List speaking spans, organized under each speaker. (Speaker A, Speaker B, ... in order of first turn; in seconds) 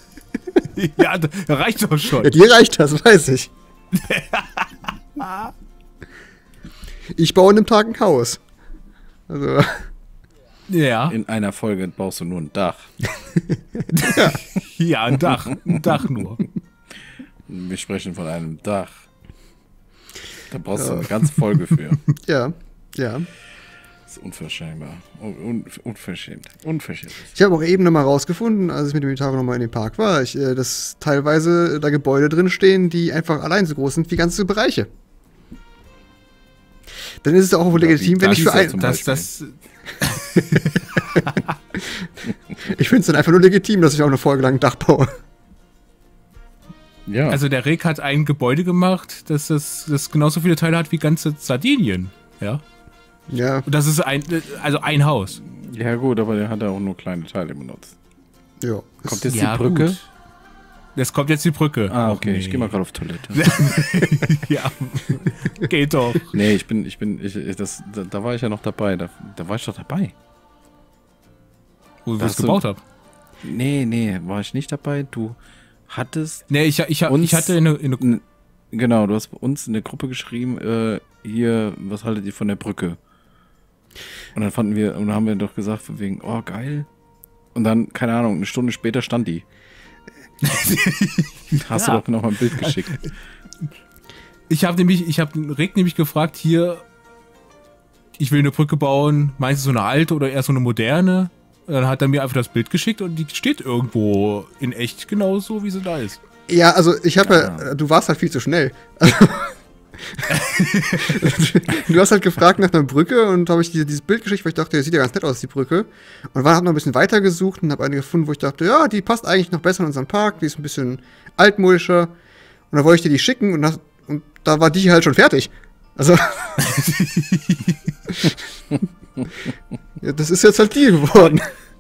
Speaker A: 0.7-2.4, 3.9-5.5, 10.7-11.2, 14.0-16.4, 38.2-41.5, 47.3-52.6, 53.6-55.4, 59.3-60.0, 61.0-62.8, 63.3-66.4, 72.0-72.8, 76.5-78.1, 90.4-92.0, 94.5-96.8, 98.2-106.2, 110.3-111.2, 126.6-127.8
Speaker B: 2.2-3.5, 7.2-8.4, 9.3-9.9, 14.0-14.4, 20.7-21.1, 22.2-23.3, 27.3-34.9, 37.2-38.8, 42.6-45.1, 53.3-53.7, 58.6-59.3, 106.5-110.3, 111.0-122.1, 122.7-126.6, 130.0-131.5
Speaker C: 11.1-12.9, 17.5-19.0, 20.5-22.0, 24.1-27.3, 37.7-39.3, 47.1-47.4, 55.4-58.0, 59.0-60.0, 61.9-63.8, 66.3-70.1, 72.2-72.6, 73.4-75.4, 75.9-76.5, 77.1-83.0, 84.3-86.9, 87.5-89.4, 91.5-93.1, 107.2-107.7